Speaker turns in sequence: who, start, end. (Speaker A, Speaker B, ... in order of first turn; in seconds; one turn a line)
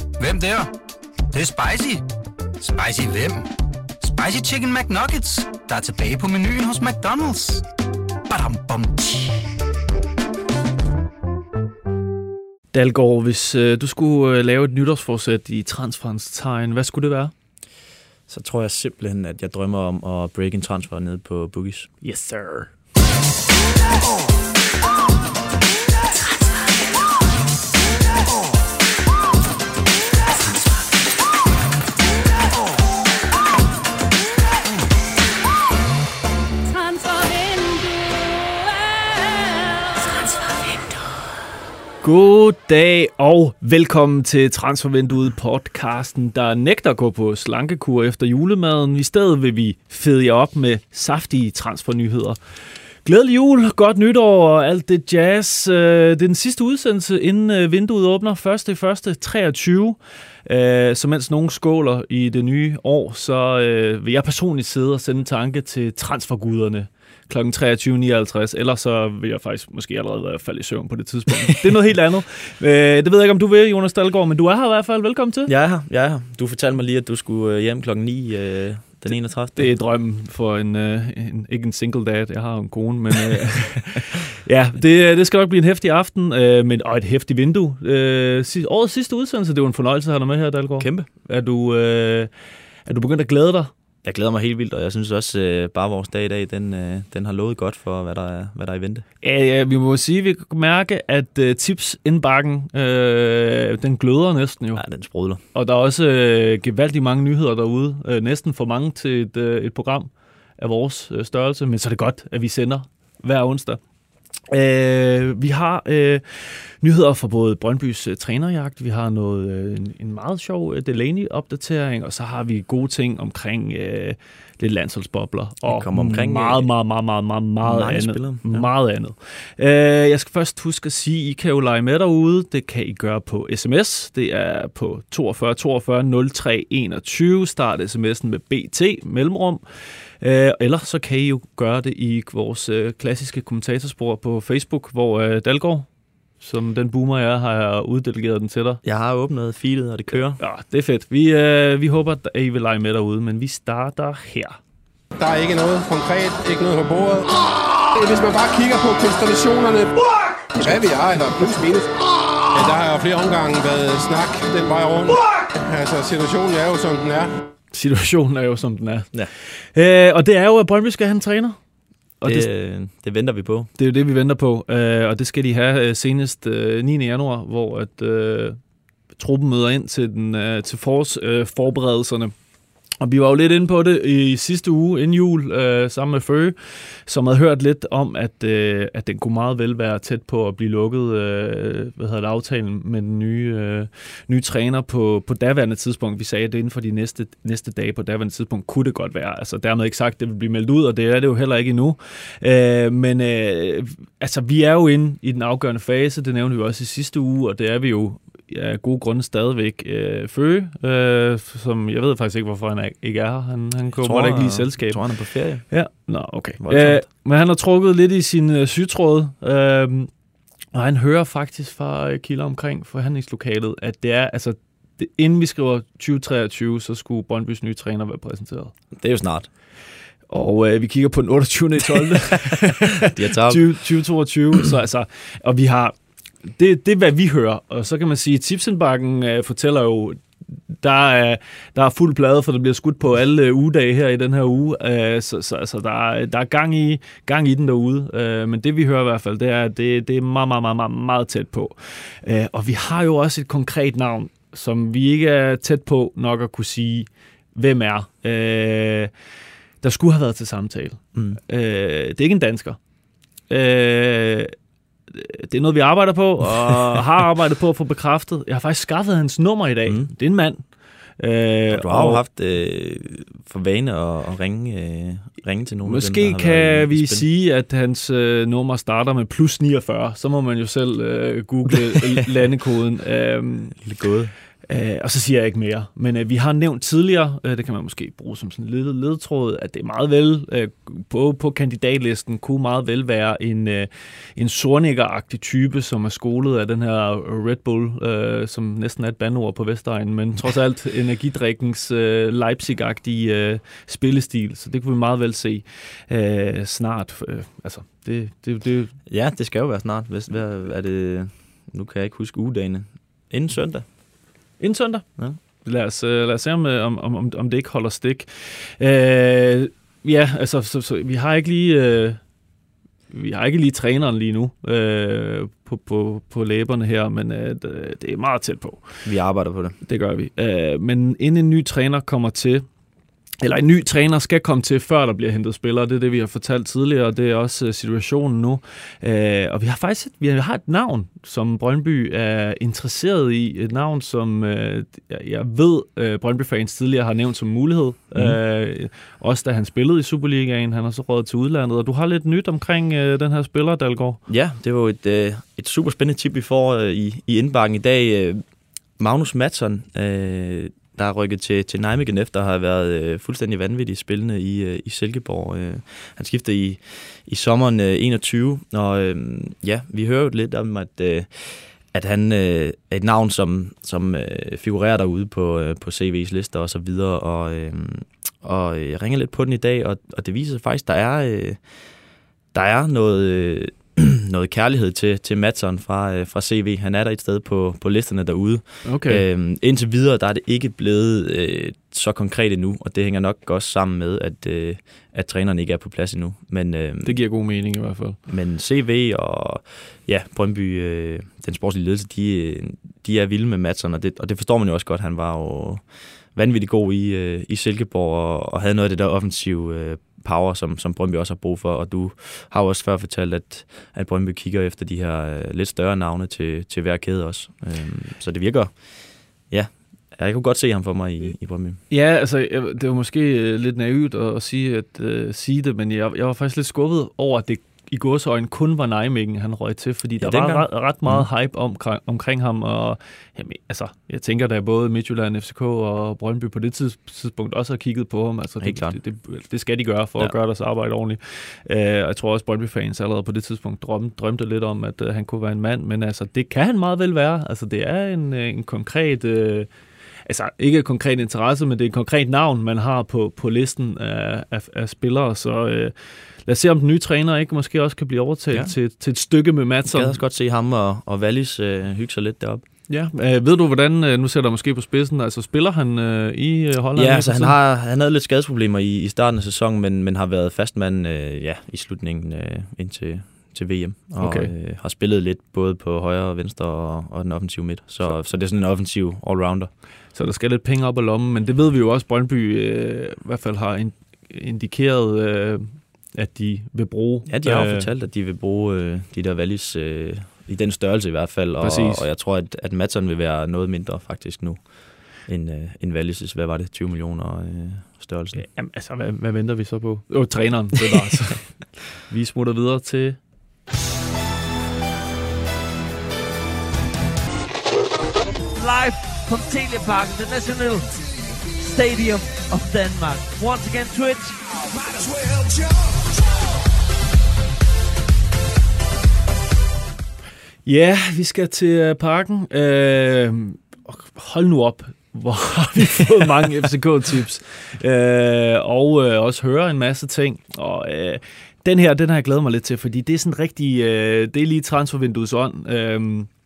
Speaker A: 0.2-0.7
Speaker A: 1.3-2.0
Speaker A: 2.6-3.5
Speaker A: 4.0-7.6
Speaker A: 8.3-9.4
Speaker B: 12.7-17.3
Speaker C: 18.3-21.9
Speaker B: 22.0-22.7
Speaker B: 42.0-52.4
Speaker B: 53.0-75.5
Speaker C: 75.5-79.7
Speaker B: 79.5-92.3
Speaker C: 90.8-91.1
Speaker B: 92.9-93.7
Speaker C: 94.0-99.0
Speaker B: 99.2-104.8
Speaker C: 104.8-105.4
Speaker B: 105.5-113.8
Speaker B: 114.5-139.6
Speaker C: 125.7-126.7
Speaker C: 127.6-128.7
Speaker B: 140.2-145.9
Speaker B: 146.4-148.8
Speaker C: 148.8-150.4
Speaker B: 150.4-154.6
Speaker D: 155.2-162.0
Speaker D: 162.5-167.3
Speaker B: 167.7-171.6
Speaker B: 172.2-172.5
Speaker C: 172.2-173.7
Speaker B: 173.8-178.6
Speaker B: 179.2-182.3
Speaker B: 183.0-215.0
Speaker C: 213.9-215.7
Speaker B: 215.7-220.1
Speaker C: 216.6-217.1
Speaker B: 220.7-228.7
Speaker C: 229.0-229.5
Speaker B: 230.3-236.0
Speaker C: 233.1-233.8
Speaker B: 236.6-259.1
Speaker B: 259.8-262.8
Speaker B: 263.5-264.5
Speaker B: 265.1-270.6
Speaker C: 269.9-270.1
Speaker B: 271.2-272.2
Speaker C: 271.7-277.3
Speaker B: 275.9-283.8
Speaker C: 283.8-284.3
Speaker B: 284.7-308.9
Speaker C: 309.1-313.9
Speaker B: 314.6-322.2
Speaker B: 323.1-328.9
Speaker C: 329.1-329.8
Speaker B: 329.9-332.7
Speaker B: 333.4-354.2
Speaker C: 354.3-358.4
Speaker C: 359.0-381.7
Speaker C: 382.5-397.2
Speaker B: 388.8-389.2
Speaker B: 397.0-398.2
Speaker C: 398.3-421.8
Speaker B: 421.9-449.7
Speaker C: 430.2-431.3
Speaker C: 438.6-439.0
Speaker B: 450.3-455.9
Speaker B: 456.4-460.1
Speaker C: 459.9-462.6
Speaker B: 462.9-467.6
Speaker C: 467.0-479.7
Speaker B: 474.2-474.5
Speaker B: 480.1-487.9
Speaker C: 487.3-498.5
Speaker B: 491.6-492.1
Speaker B: 498.3-503.2
Speaker E: 508.3-511.0
Speaker E: 511.6-514.6
Speaker B: 520.6-536.3